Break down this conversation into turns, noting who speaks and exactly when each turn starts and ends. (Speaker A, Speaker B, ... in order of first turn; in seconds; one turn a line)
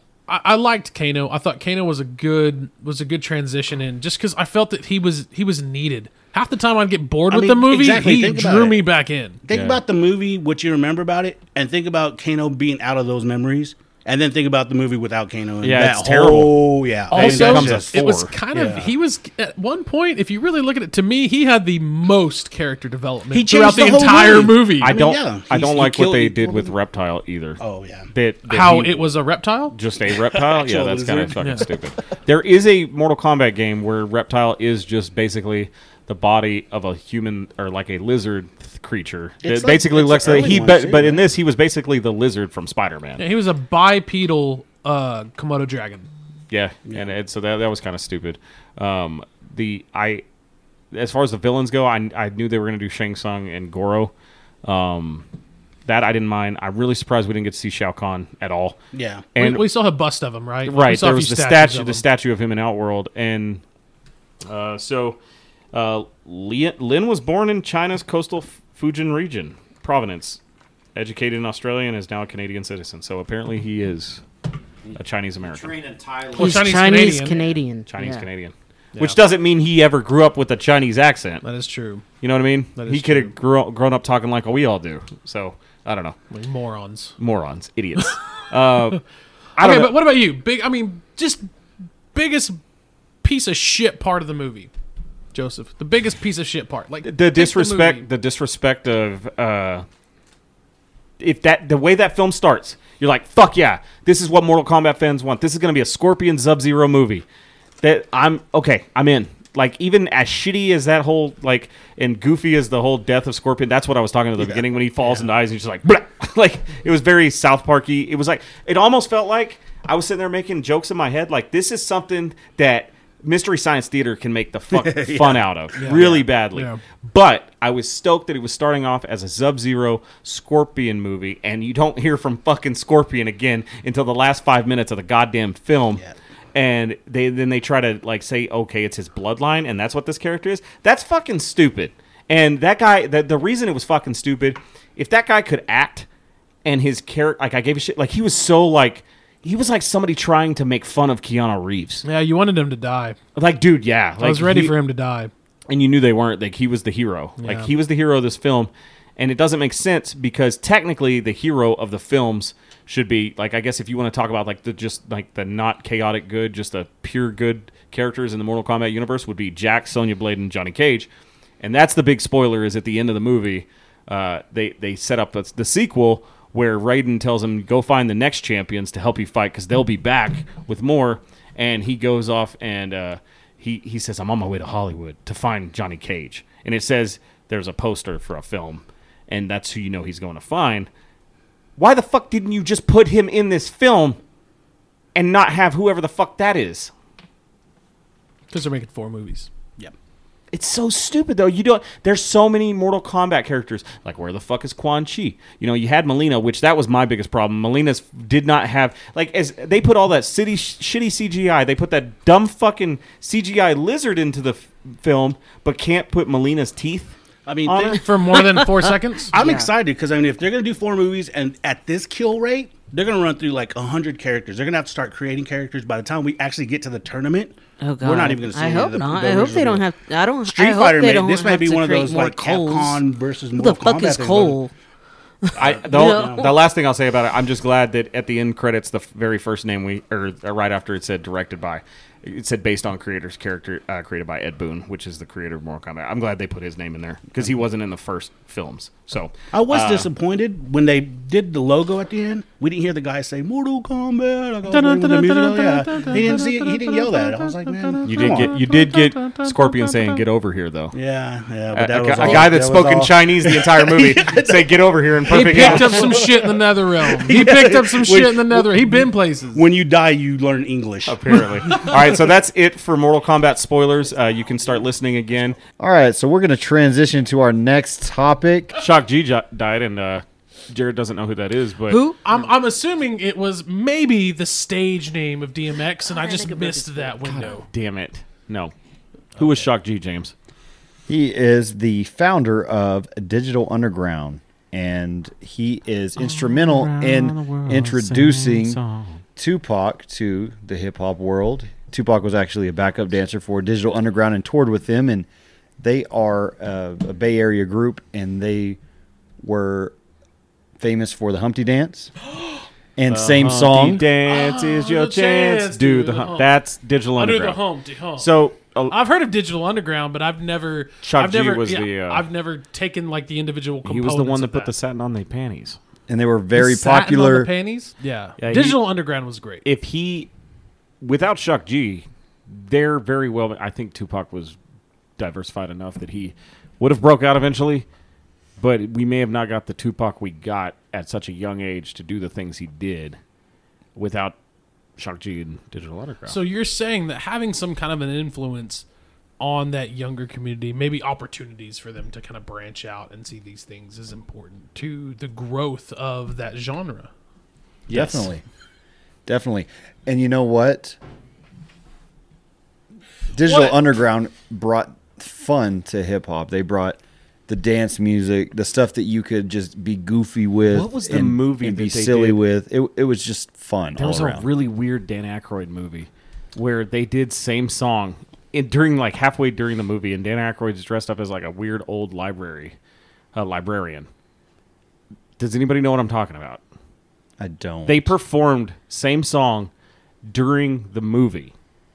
Speaker A: 0.3-9.4
Speaker B: 7.3-8.8
Speaker B: 9.4-18.9
Speaker C: 9.5-9.8
Speaker C: 15.6-18.3
Speaker A: 17.1-25.0
Speaker B: 23.3-26.7
Speaker C: 24.8-29.1
Speaker B: 27.6-28.1
Speaker A: 28.5-29.8
Speaker C: 29.7-43.2
Speaker B: 30.3-31.6
Speaker A: 31.4-31.7
Speaker B: 39.4-41.3
Speaker A: 43.2-46.1
Speaker C: 46.5-50.2
Speaker C: 50.9-54.1
Speaker C: 54.6-55.2
Speaker C: 55.9-58.8
Speaker B: 58.9-59.3
Speaker C: 59.3-59.7
Speaker A: 59.4-62.0
Speaker C: 60.6-63.6
Speaker C: 64.5-65.2
Speaker C: 65.7-70.4
Speaker C: 70.9-74.2
Speaker C: 74.9-75.7
Speaker D: 75.4-77.0
Speaker A: 76.3-77.5
Speaker E: 76.3-78.2
Speaker C: 77.9-81.4
Speaker A: 81.4-82.0
Speaker C: 82.2-86.2
Speaker A: 82.8-83.3
Speaker A: 86.3-87.1
Speaker C: 87.2-89.0
Speaker C: 89.6-90.0
Speaker A: 89.6-91.5
Speaker A: 92.1-92.6
Speaker A: 93.2-94.7
Speaker A: 95.3-98.1
Speaker C: 97.0-99.8
Speaker C: 101.2-107.2
Speaker C: 107.8-136.0
Speaker B: 124.7-126.2
Speaker A: 125.8-126.8
Speaker C: 136.5-146.1
Speaker C: 146.6-152.0
Speaker A: 152.0-153.2
Speaker C: 153.3-154.7
Speaker A: 154.2-155.3
Speaker C: 155.7-171.1
Speaker A: 157.4-157.7
Speaker C: 171.6-190.9
Speaker C: 191.8-194.2
Speaker C: 195.1-196.9
Speaker A: 198.5-199.5
Speaker C: 200.5-218.0
Speaker B: 217.4-218.1
Speaker A: 217.9-219.3
Speaker B: 219.3-229.8
Speaker E: 219.3-219.7
Speaker E: 227.8-233.0
Speaker B: 230.4-234.6
Speaker E: 233.6-234.7
Speaker E: 235.4-236.5
Speaker B: 235.6-236.5
Speaker C: 235.6-250.1
Speaker B: 249.5-258.5
Speaker A: 254.7-260.1
Speaker C: 258.0-260.9
Speaker B: 260.9-272.1
Speaker C: 261.7-266.1
Speaker D: 262.1-263.1
Speaker A: 265.3-269.6
Speaker C: 271.1-275.6
Speaker D: 275.8-278.8
Speaker C: 278.8-282.0
Speaker E: 281.9-282.2
Speaker A: 282.2-287.6
Speaker E: 286.1-287.6
Speaker C: 287.4-288.7
Speaker C: 289.4-290.3
Speaker D: 291.1-298.8
Speaker C: 296.2-299.2
Speaker D: 299.4-305.3
Speaker D: 305.8-308.8
Speaker D: 309.4-309.9
Speaker D: 310.8-312.1
Speaker D: 313.0-314.0
Speaker C: 313.1-317.6
Speaker A: 314.2-316.5
Speaker A: 317.1-318.3
Speaker C: 318.2-318.9
Speaker A: 318.9-324.7
Speaker C: 321.0-322.2
Speaker C: 323.8-325.8
Speaker D: 326.1-327.5
Speaker A: 326.5-329.6
Speaker C: 328.4-328.8
Speaker C: 329.6-330.3
Speaker C: 331.0-334.5
Speaker C: 335.2-337.9
Speaker C: 338.6-343.2
Speaker C: 343.9-344.4
Speaker C: 345.0-346.4
Speaker A: 346.2-348.8
Speaker A: 349.4-357.1
Speaker D: 357.9-358.4
Speaker D: 359.2-361.0
Speaker D: 363.3-374.5
Speaker A: 363.4-363.8
Speaker C: 370.7-372.4
Speaker C: 373.9-382.7
Speaker C: 383.3-384.1
Speaker C: 385.4-386.6
Speaker D: 387.4-388.1
Speaker C: 387.9-389.7
Speaker C: 390.3-391.5